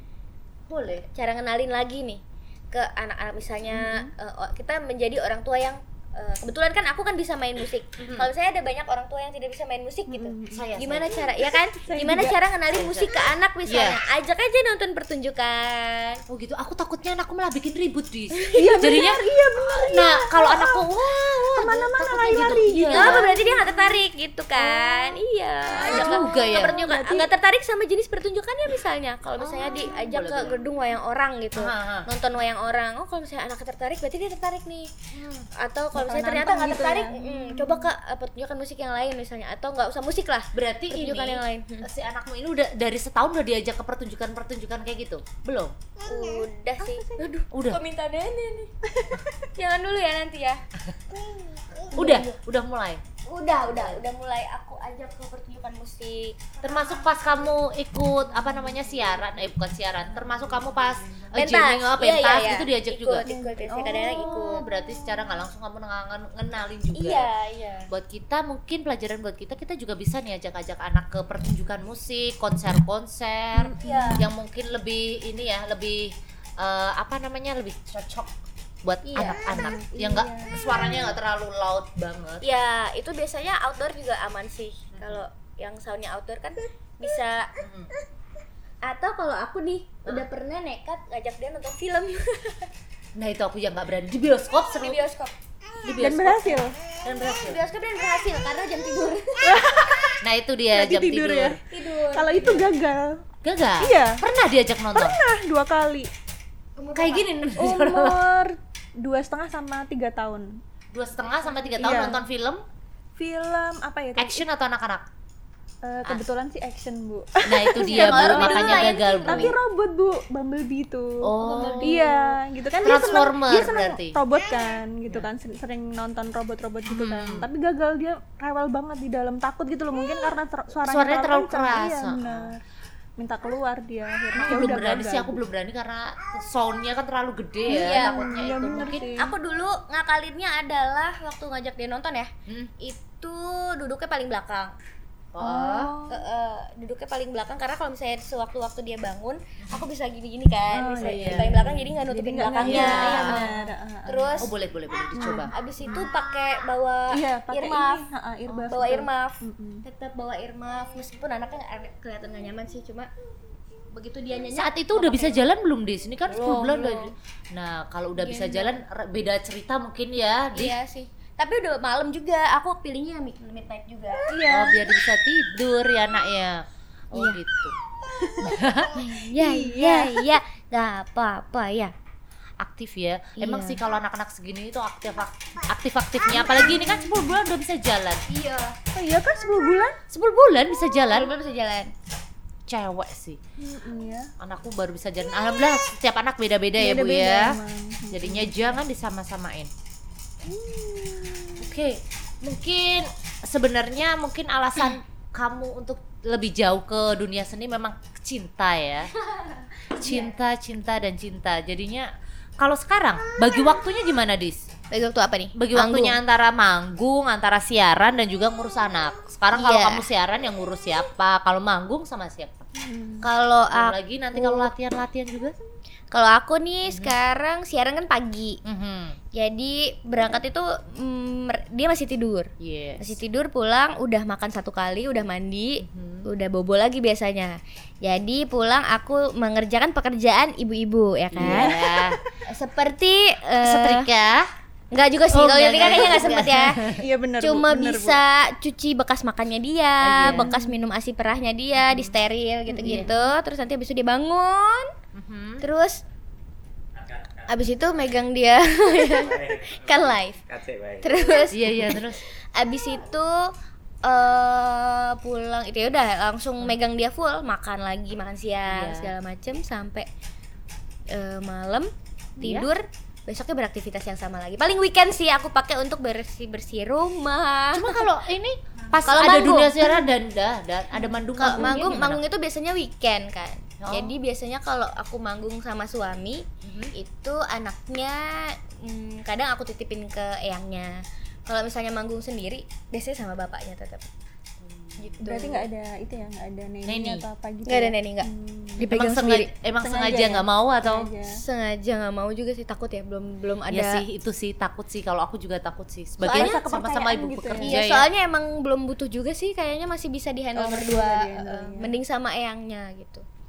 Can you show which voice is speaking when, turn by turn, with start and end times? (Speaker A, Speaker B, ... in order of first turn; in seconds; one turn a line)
Speaker A: 0.7-1.1
Speaker B: 1.1-16.2
Speaker C: 3.7-4.1
Speaker A: 8.0-8.3
Speaker C: 10.1-10.7
Speaker A: 10.5-11.2
Speaker C: 11.4-12.4
Speaker A: 12.7-13.1
Speaker A: 13.6-14.0
Speaker A: 16.3-23.2
Speaker C: 18.5-24.0
Speaker B: 22.9-34.9
Speaker C: 24.6-25.2
Speaker A: 25.8-26.8
Speaker C: 25.8-27.3
Speaker A: 29.4-30.6
Speaker A: 31.6-32.1
Speaker A: 35.1-35.5
Speaker B: 35.5-41.9
Speaker C: 35.9-37.9
Speaker A: 40.5-45.8
Speaker B: 46.0-48.7
Speaker C: 46.8-47.2
Speaker A: 47.5-47.8
Speaker B: 49.4-50.6
Speaker B: 51.1-52.4
Speaker A: 51.9-53.0
Speaker B: 53.2-56.5
Speaker A: 56.6-63.2
Speaker B: 61.3-64.7
Speaker C: 63.2-64.2
Speaker A: 63.9-67.3
Speaker B: 66.9-67.9
Speaker A: 67.9-82.4
Speaker C: 73.6-74.2
Speaker B: 73.8-74.2
Speaker B: 79.0-79.5
Speaker C: 79.4-80.6
Speaker B: 82.4-87.5
Speaker A: 84.9-85.2
Speaker A: 87.6-87.9
Speaker B: 88.8-92.7
Speaker A: 93.1-95.0
Speaker B: 94.8-95.3
Speaker A: 95.8-97.6
Speaker C: 96.0-96.7
Speaker B: 97.4-99.8
Speaker C: 99.4-100.2
Speaker A: 100.2-101.6
Speaker C: 100.7-101.6
Speaker B: 101.7-102.6
Speaker C: 102.1-103.2
Speaker A: 103.4-105.2
Speaker C: 103.8-104.2
Speaker C: 104.9-106.1
Speaker B: 106.8-107.3
Speaker A: 106.9-108.3
Speaker C: 107.5-110.6
Speaker A: 110.9-112.6
Speaker C: 111.8-112.2
Speaker C: 113.2-114.4
Speaker A: 114.2-115.1
Speaker C: 115.8-132.6
Speaker A: 117.4-119.5
Speaker B: 117.8-119.5
Speaker A: 121.2-122.1
Speaker B: 121.4-122.3
Speaker A: 122.8-124.2
Speaker A: 126.9-127.5
Speaker A: 130.8-132.5
Speaker C: 133.2-135.4
Speaker A: 134.4-139.1
Speaker C: 137.7-139.3
Speaker B: 137.7-138.3
Speaker B: 139.2-144.7
Speaker A: 142.5-142.7
Speaker A: 145.3-145.9
Speaker C: 145.4-146.2
Speaker B: 146.1-154.5
Speaker C: 150.7-154.4
Speaker A: 151.0-151.5
Speaker A: 152.6-153.4
Speaker A: 154.4-155.5
Speaker C: 155.1-156.0
Speaker B: 155.2-163.1
Speaker C: 157.1-159.8
Speaker B: 163.9-165.4
Speaker A: 164.5-170.8
Speaker B: 166.3-167.1
Speaker B: 168.2-168.8
Speaker B: 170.5-174.7
Speaker C: 174.3-174.8
Speaker A: 174.5-177.7
Speaker B: 177.1-177.4
Speaker C: 178.2-178.5
Speaker A: 178.4-178.9
Speaker B: 178.9-181.9
Speaker C: 179.2-180.3
Speaker A: 182.6-188.2
Speaker B: 183.4-183.8
Speaker C: 186.3-187.2
Speaker B: 188.3-188.8
Speaker C: 188.9-190.0
Speaker A: 190.1-191.3
Speaker B: 191.1-191.9
Speaker A: 192.7-193.4
Speaker C: 193.6-194.3
Speaker A: 194.4-197.6
Speaker C: 196.8-198.5
Speaker A: 198.1-199.7
Speaker C: 200.4-201.7
Speaker A: 201.6-209.1
Speaker B: 209.3-210.3
Speaker A: 210.0-214.7
Speaker B: 214.9-216.2
Speaker A: 215.5-222.6
Speaker B: 219.5-220.1
Speaker C: 222.8-223.2
Speaker B: 223.2-224.7
Speaker A: 223.7-225.5
Speaker B: 226.1-228.6
Speaker A: 226.9-227.1
Speaker A: 228.6-229.2
Speaker B: 229.3-241.7
Speaker A: 232.6-233.2
Speaker A: 235.8-236.3
Speaker A: 241.3-242.2
Speaker C: 241.4-242.3
Speaker B: 242.5-244.1
Speaker A: 243.6-244.5
Speaker B: 244.9-246.8
Speaker A: 245.3-247.0
Speaker C: 245.9-246.2
Speaker C: 246.9-248.2
Speaker B: 247.4-254.9
Speaker A: 250.0-250.5
Speaker C: 250.3-250.8
Speaker A: 251.8-252.1
Speaker C: 252.7-253.1
Speaker A: 252.8-253.1
Speaker A: 255.1-255.6
Speaker B: 255.6-256.0
Speaker D: 257.0-257.6
Speaker B: 257.5-260.4
Speaker D: 258.9-261.1
Speaker B: 261.0-262.0
Speaker A: 261.5-262.2
Speaker B: 262.5-263.5
Speaker B: 264.0-270.1
Speaker A: 268.7-269.1
Speaker B: 271.1-278.0
Speaker A: 272.4-272.7
Speaker A: 277.7-282.2
Speaker B: 279.0-279.8
Speaker B: 281.4-294.1
Speaker C: 281.5-281.8
Speaker A: 283.8-284.1
Speaker A: 286.6-286.9
Speaker A: 294.6-295.1
Speaker B: 295.0-295.7
Speaker C: 295.2-298.9
Speaker A: 296.9-297.2
Speaker B: 297.6-298.3
Speaker B: 298.8-299.5
Speaker A: 298.8-301.1
Speaker C: 299.8-301.4
Speaker B: 301.3-304.0
Speaker A: 303.7-308.1
Speaker C: 306.2-307.7
Speaker B: 306.2-306.6
Speaker B: 307.6-313.2
Speaker C: 310.6-311.9